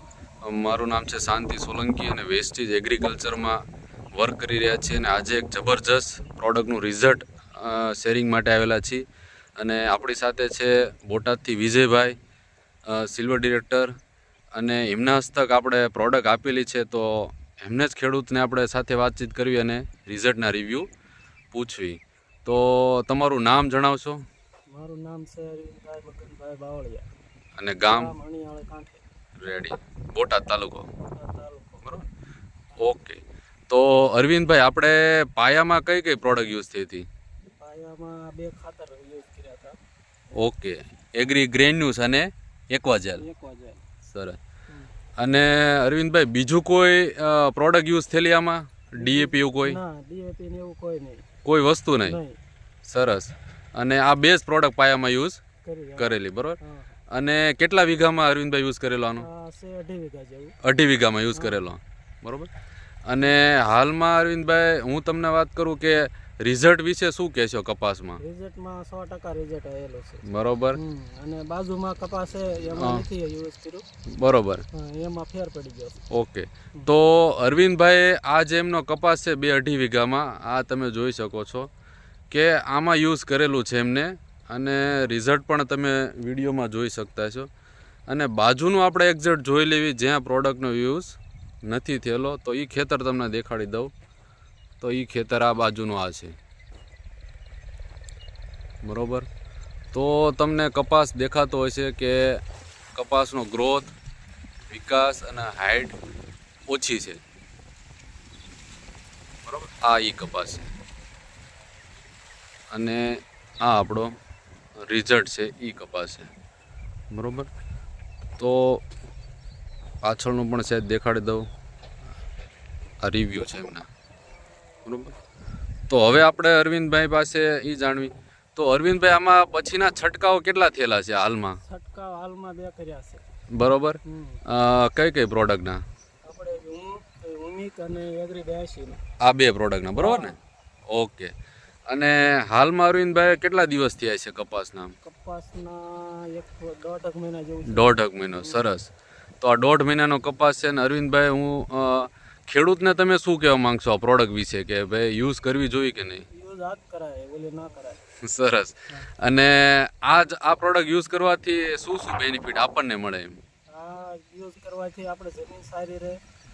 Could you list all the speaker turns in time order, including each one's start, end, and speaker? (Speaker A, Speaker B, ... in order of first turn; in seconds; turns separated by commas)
Speaker A: 0.4-3.6, Speaker A: 4.1-9.0, Speaker A: 9.6-12.2, Speaker A: 12.8-13.9, Speaker A: 14.6-20.9, Speaker A: 21.5-24.2, Speaker B: 24.7-27.1, Speaker A: 27.6-28.1, Speaker B: 27.9-29.0, Speaker A: 29.4-30.9, Speaker B: 31.0-32.0, Speaker A: 32.8-37.0, Speaker B: 37.6-39.8, Speaker A: 40.4-43.2, Speaker B: 43.2-43.8, Speaker A: 44.0-44.4, Speaker A: 45.2-49.8, Speaker B: 49.0-51.2, Speaker A: 51.4-52.2, Speaker B: 52.0-52.4, Speaker A: 52.8-55.4, Speaker B: 55.6-56.9, Speaker A: 56.0-56.6, Speaker A: 57.1-59.3, Speaker B: 59.2-60.5, Speaker A: 60.6-62.5, Speaker A: 63.0-68.2, Speaker B: 68.2-70.2, Speaker A: 70.2-70.8, Speaker B: 70.7-73.8, Speaker A: 72.8-73.0, Speaker A: 74.1-74.6, Speaker B: 74.7-76.0, Speaker A: 76.1-81.7, Speaker A: 82.3-87.5, Speaker A: 88.1-93.9, Speaker A: 94.8-96.3, Speaker A: 98.8-99.2, Speaker A: 99.9-102.4, Speaker A: 102.9-103.9, Speaker A: 104.7-105.9, Speaker A: 106.7-107.2, Speaker A: 109.5-110.7, Speaker A: 112.7-114.1, Speaker A: 114.9-116.3, Speaker A: 117.1-117.5, Speaker A: 118.4-118.8, Speaker A: 120.0-121.5, Speaker A: 123.0-123.8, Speaker A: 124.8-125.1, Speaker A: 125.9-131.6, Speaker B: 131.6-133.2, Speaker A: 133.5-135.8, Speaker B: 134.0-134.4, Speaker B: 136.2-139.0, Speaker A: 139.2-140.3, Speaker B: 140.0-140.3, Speaker A: 140.9-141.3, Speaker A: 141.9-144.9, Speaker B: 145.0-148.7, Speaker A: 147.7-148.9, Speaker A: 149.4-156.2, Speaker B: 156.3-158.0, Speaker A: 158.2-163.4, Speaker B: 163.7-166.2